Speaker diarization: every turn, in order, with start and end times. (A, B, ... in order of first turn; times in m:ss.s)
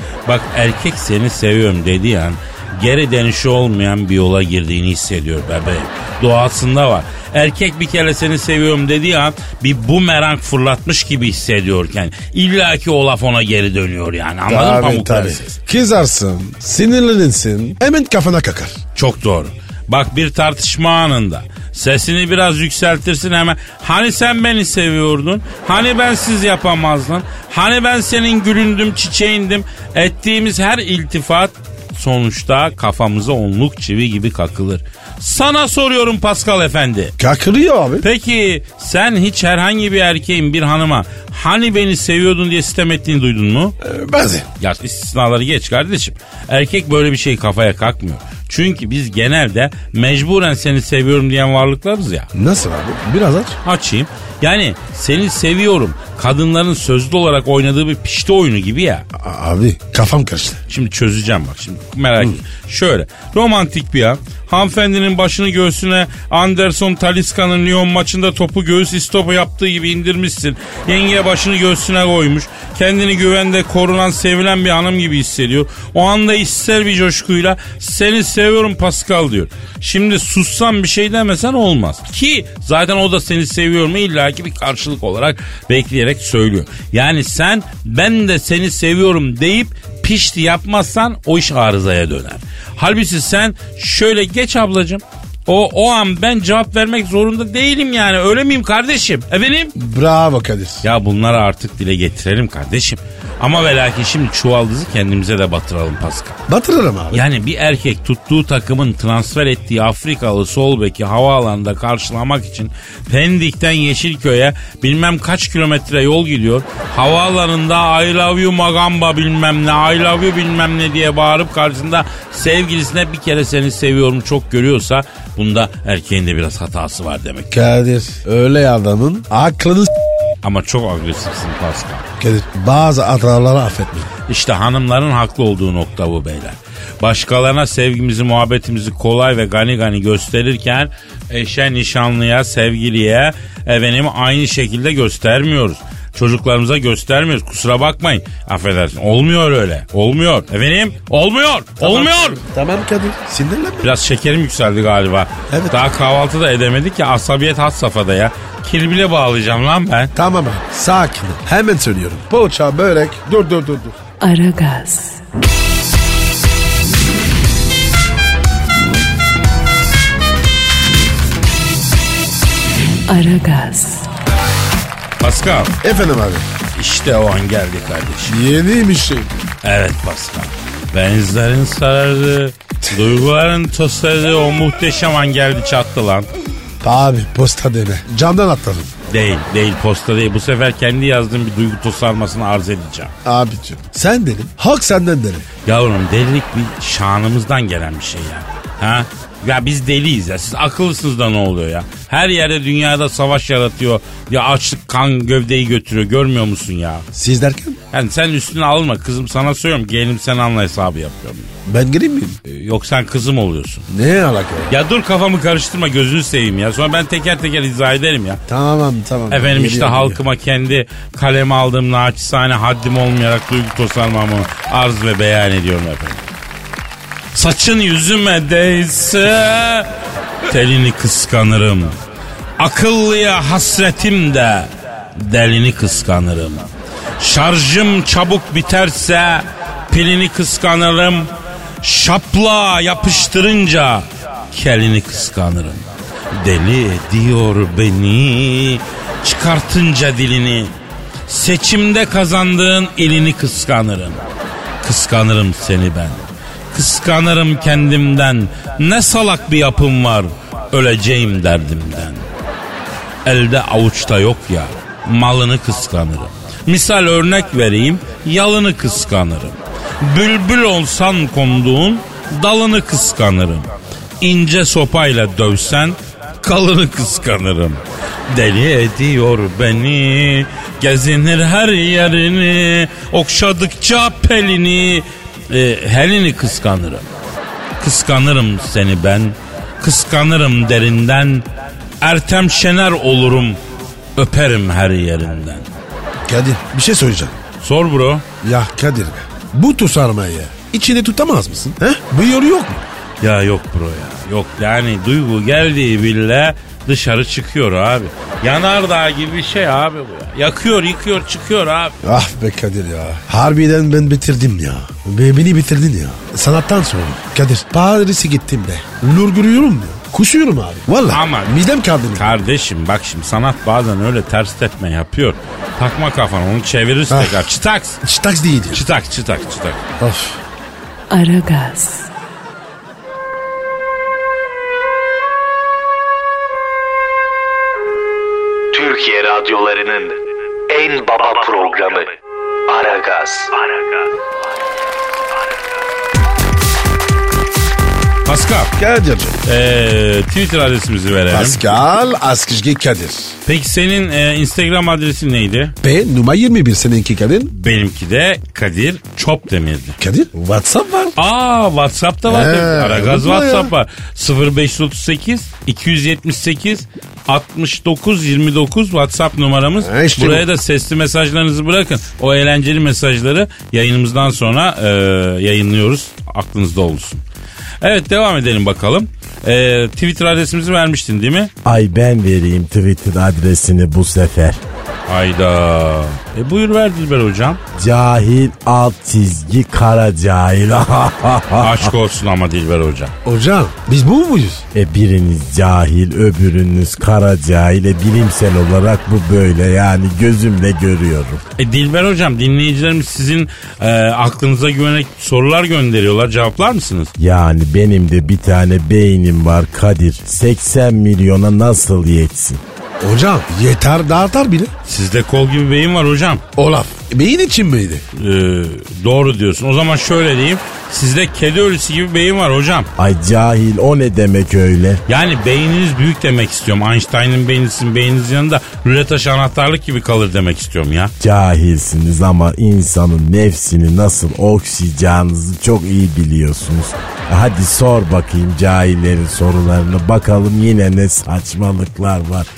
0:00.2-0:15.5 A
0:14.5-0:18.8 B
0:19.0-0:37.1 A
0:37.2-0:38.0 B
0:38.0-0:43.8 A
0:43.8-0:44.5 B
0:44.6-0:52.3 A
0:52.3-0:53.6 B
0:53.6-0:59.0 A
0:59.2-1:00.6 B
1:00.7-1:39.7 A
1:39.8-1:40.8 B
1:40.8-1:46.4 A
1:46.5-1:47.2 B
1:47.1-2:07.5 A
2:07.5-2:09.9 B
2:10.4-2:12.0 A
2:12.2-2:14.1 B
2:14.3-2:32.4 A
2:31.8-2:33.9 B
2:33.8-2:40.1 A
2:35.5-2:35.8 B
2:40.1-2:44.0 B
2:44.2-2:45.2 C
2:53.1-2:54.1 C
2:55.2-2:55.8 A
2:55.8-2:56.5 B
2:56.8-2:58.4 A
2:58.3-2:59.3 B
2:59.6-3:06.3 A
3:06.8-3:08.9 B
3:09.1-3:13.1 A
3:13.2-3:15.5 B
3:15.6-3:27.0 A
3:27.1-3:27.8 B
3:27.9-3:31.5 A
3:31.7-3:32.4 B
3:32.4-3:33.9 A
3:33.9-3:34.7 B
3:34.7-3:38.4 A
3:38.5-3:40.2 B
3:39.3-3:46.2 A
3:47.3-3:49.9 A
3:50.5-3:51.9 A
3:52.6-3:56.7 A
3:57.2-4:01.3 A
4:01.8-4:10.7 A
4:11.3-4:14.2 A
4:14.8-4:22.2 A
4:23.2-4:33.7 A
4:34.2-4:47.0 A
4:47.8-4:51.4 A
4:52.0-4:53.6 A
4:54.2-4:55.6 A
4:56.3-4:57.4 B
4:57.6-4:58.2 A
4:58.4-5:02.8 B
5:03.2-5:11.9 A
5:12.0-5:22.3 B
5:21.1-5:21.6 A
5:22.1-5:28.0 A
5:27.1-5:27.4 B
5:28.0-5:28.8 B
5:28.7-5:29.8 A
5:30.0-5:30.4 B
5:31.1-5:32.1 C
5:38.7-5:40.2 D
5:40.7-5:42.1 D
5:42.7-5:43.6 D
5:48.2-5:48.7 A
5:48.8-5:49.4 B
5:49.4-5:51.6 A
5:51.3-5:53.4 B
5:53.5-5:55.8 A
5:55.8-5:57.5 B
5:57.5-6:00.0 A
6:00.0-6:01.1 B
6:01.2-6:17.2 A
6:02.2-6:03.7 B
6:09.8-6:10.5 B
6:17.8-6:21.5 A
6:21.6-6:24.6 E
6:25.1-6:27.6 A
6:27.7-6:31.9 E
6:31.6-6:33.1 A
6:33.2-6:34.6 B
6:34.7-6:41.4 E
6:41.6-6:47.1 A
6:47.2-6:52.6 E
6:53.0-6:54.7 B
6:54.8-6:56.4 A
6:56.6-6:58.0 B
6:58.1-7:02.9 A
7:03.0-7:05.0 E
7:05.1-7:11.1 A
7:11.2-7:22.5 E